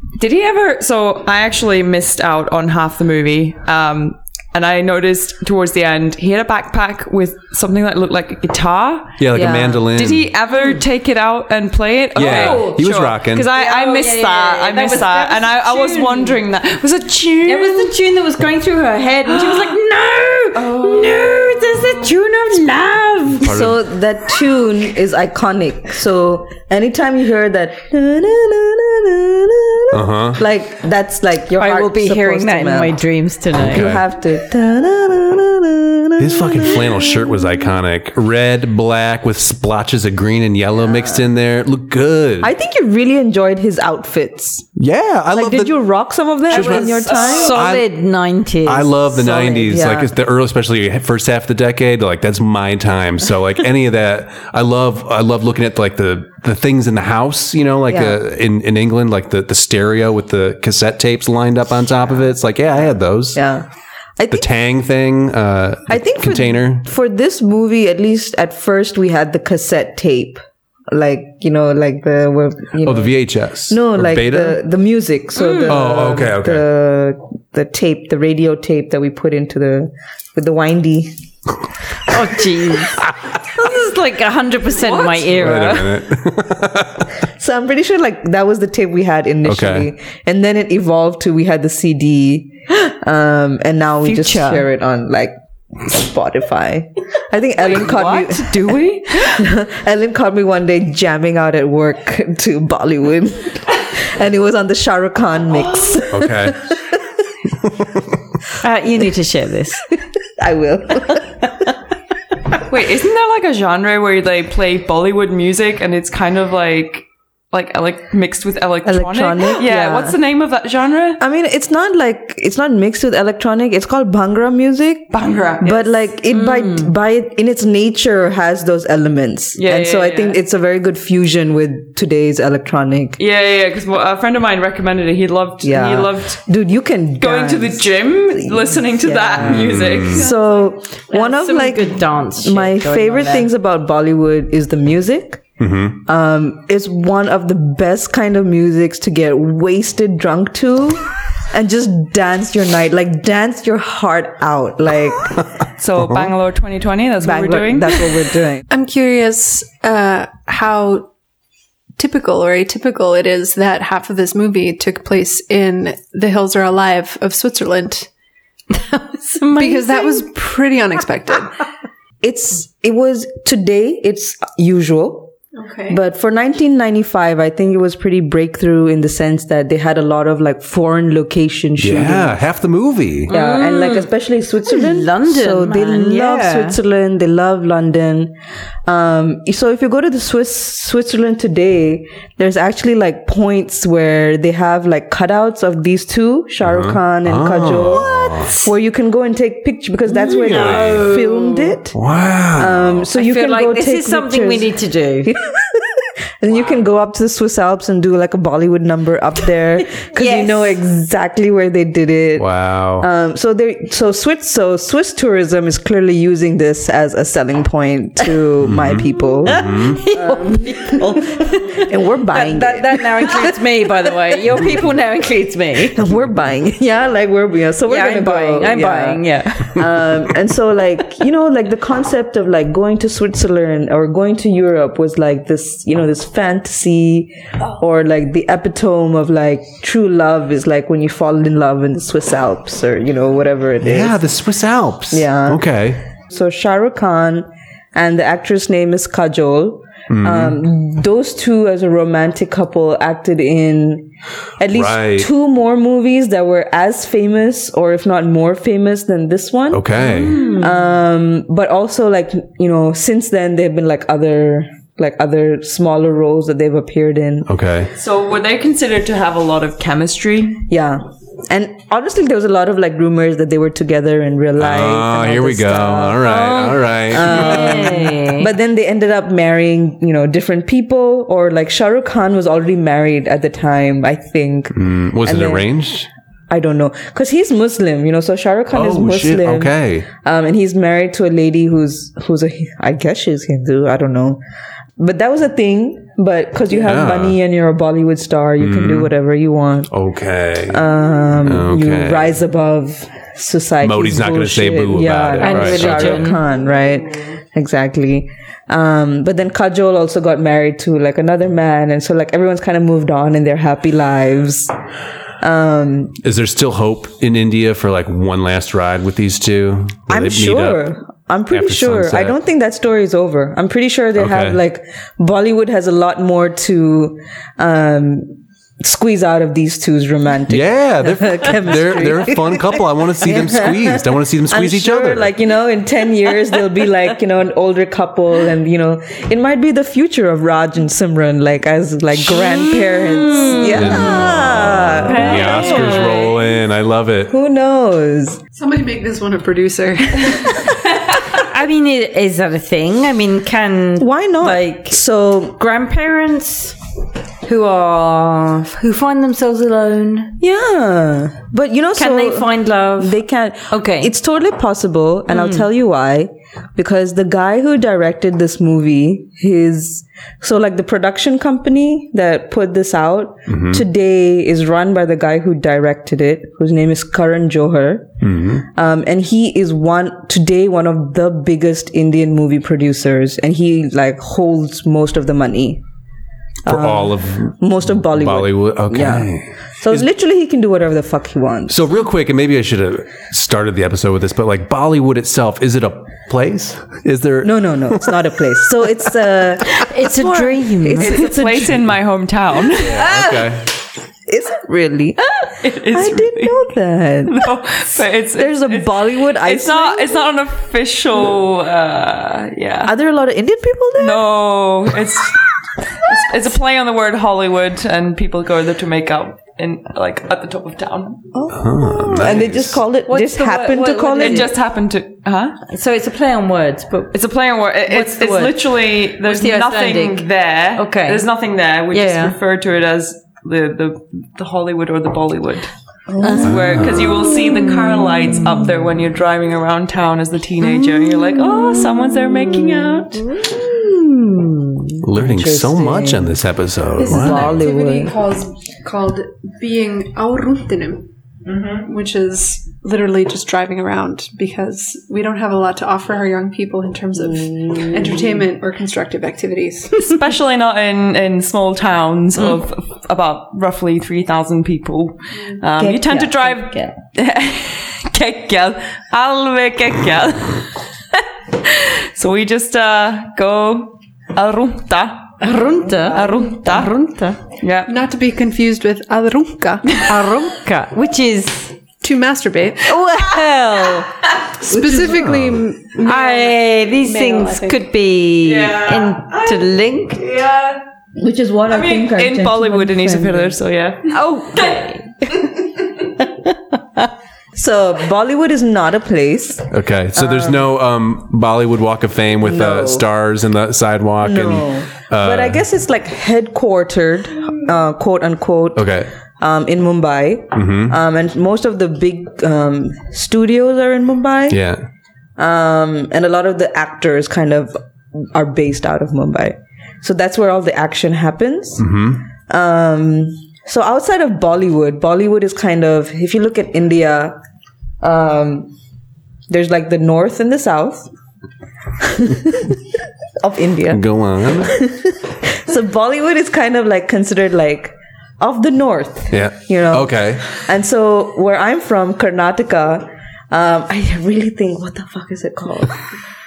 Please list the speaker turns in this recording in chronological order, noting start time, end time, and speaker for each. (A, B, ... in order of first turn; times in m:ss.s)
0:00.2-0:09.2 A
0:09.2-0:10.3 B
0:09.3-0:09.9 C
0:09.9-0:18.0 A
0:12.2-0:12.8 D
0:12.2-0:13.5 B
0:13.6-0:16.4 D
0:17.4-0:23.5 D
0:19.3-0:19.7 A
0:20.5-0:22.1 A
0:23.4-0:23.8 B
0:23.4-0:33.0 C
0:29.9-0:30.4 B
0:31.6-0:33.9 D
0:33.6-0:34.0 B
0:33.7-0:37.3 C
0:36.2-0:42.5 B
0:40.9-0:41.2 C
0:42.4-0:44.7 C
0:44.8-0:45.8 B
0:45.3-0:47.6 C
0:46.5-0:47.9 B
0:46.5-0:49.0 D
0:48.6-1:03.4 B
0:49.1-0:50.1 C
0:57.9-0:58.2 C
1:03.4-1:03.6 C
1:04.2-1:04.5 C
1:04.3-1:06.8 B
1:05.9-1:21.1 C
1:12.8-1:14.6 B
1:15.4-1:15.8 D
1:15.7-1:16.7 B
1:22.0-1:26.0 D
1:24.8-1:25.2 A
1:25.2-1:27.2 B
1:27.3-1:47.0 C
1:29.4-1:29.9 B
1:34.0-1:34.7 D
1:37.6-1:39.4 A
1:46.1-1:46.6 B
1:47.6-1:48.0 B
1:48.6-1:49.9 D
1:50.3-1:51.4 C
1:52.7-2:01.2 A
1:58.8-2:00.2 C
2:01.2-2:13.2 C
2:05.1-2:06.1 A
2:09.6-2:10.4 A
2:13.2-2:16.4 A
2:15.6-2:25.4 C
2:17.2-2:20.7 A
2:19.4-2:20.2 B
2:21.1-2:23.5 D
2:25.6-2:26.0 B
2:26.1-2:35.4 C
2:35.8-2:38.2 A
2:36.0-2:36.3 B
2:37.2-2:38.6 C
2:38.7-2:41.1 E
2:42.0-2:48.1 E
2:48.8-2:50.3 D
2:49.5-2:51.6 E
2:52.2-2:55.4 C
2:55.6-2:56.0 E
2:55.9-3:02.4 C
3:01.8-3:03.3 B
3:03.3-3:04.1 D
3:03.3-3:08.3 C
3:04.6-3:06.8 D
3:08.9-3:22.0 C
3:16.6-3:18.5 B
3:18.0-3:18.5 D
3:20.1-3:21.8 D
3:20.4-3:21.1 B
3:21.9-3:23.1 B
3:22.6-3:24.7 C
3:23.2-3:25.3 D
3:25.2-3:25.8 C
3:26.4-3:44.7 C
3:30.2-3:30.8 D
3:32.4-3:33.1 B
3:38.6-3:40.0 B
3:39.5-3:46.0 D
3:45.9-4:04.2 C
3:47.9-3:50.0 D
4:03.8-4:06.0 B
4:05.1-4:05.7 C
4:06.3-4:27.5 C
4:10.1-4:10.6 B
4:14.7-4:15.3 B
4:19.7-4:20.5 B
4:20.0-4:20.8 D
4:27.5-4:27.9 B
4:27.9-4:30.6 A
4:30.7-4:36.4 C
4:34.6-4:38.0 B
4:36.2-4:38.5 D
4:37.0-4:45.7 C
4:44.7-4:46.1 B
4:46.5-4:54.4 C
4:48.7-4:50.1 B
4:55.0-4:59.9 C
4:56.8-4:57.4 B
4:58.6-4:59.1 B
4:59.9-5:00.9 B
5:00.7-5:14.7 C
5:01.4-5:02.4 B
5:03.8-5:06.3 B
5:05.4-5:06.4 D
5:15.4-5:16.2 C
5:16.2-5:20.8 B
5:20.1-5:46.3 C
5:21.5-5:22.4 B
5:24.2-5:24.6 B
5:30.5-5:35.3 B
5:42.2-5:46.4 D
5:43.7-5:47.3 B
5:47.3-5:48.4 C
5:48.6-5:50.8 E
5:51.2-5:55.0 D
5:54.0-5:55.6 C
5:55.6-5:56.8 D
5:57.4-6:00.4 D
6:00.4-6:18.1 C
6:02.0-6:04.1 D
6:05.3-6:05.6 D
6:13.5-6:13.8 B
6:18.2-6:18.6 B
6:18.6-6:25.8 C
6:26.6-6:31.8 C
6:26.7-6:30.1 B
6:31.7-6:38.9 B
6:37.4-6:41.9 C
6:39.8-6:41.3 D
6:41.0-6:43.1 A
6:42.8-6:43.7 B
6:44.3-6:45.3 C
6:45.6-6:46.7 A
6:45.9-6:47.5 C
6:47.3-6:52.9 A
6:48.4-6:50.3 C
6:52.8-6:54.3 C
6:54.0-6:55.4 A
6:56.0-7:01.3 A
7:01.3-7:04.5 C
7:01.5-7:02.8 B
7:03.1-7:04.5 D
7:04.2-7:05.6 A
7:05.7-7:07.2 D
7:07.1-7:15.7 A
7:07.9-7:11.3 D
7:11.9-7:12.4 D
7:16.1-7:16.5 C
7:16.2-7:18.7 D
7:16.3-7:23.3 A
7:16.4-7:17.1 B
7:20.6-7:25.0 D
7:25.0-7:27.6 B
7:25.1-7:26.4 C
7:27.0-7:31.1 E
7:27.0-7:28.2 C
7:31.5-7:31.8 A
7:31.8-7:40.0 E
7:37.2-7:38.4 C
7:40.0-7:50.8 A
7:45.8-7:46.9 C
7:51.5-7:55.4 A
7:55.4-7:57.4 D
7:56.2-7:56.9 A
7:57.5-7:57.9 A
7:57.9-8:00.0 E
8:00.0-8:01.7 D
8:02.0-8:03.0 E
8:02.9-8:04.1 D
8:04.6-8:07.8 E
8:04.7-8:05.4 C
8:05.0-8:05.6 B
8:06.0-8:10.3 D
8:08.4-8:10.8 A
8:11.2-8:13.6 C
8:11.7-8:14.7 A
8:14.1-8:15.3 D
8:17.6-8:20.7 C
8:19.7-8:25.6 B
8:22.4-8:23.1 C
8:24.2-8:34.6 C
8:28.8-8:29.1 B
8:30.5-8:31.0 B
8:34.5-8:34.9 B
8:35.4-8:42.0 C
8:41.8-8:42.2 B
8:42.5-8:47.4 C
8:48.0-8:48.7 C
8:49.5-8:51.1 C
8:52.0-8:52.8 C
8:53.4-8:54.0 C
8:53.9-8:54.8 B
8:54.7-9:06.0 C
8:59.3-9:00.4 B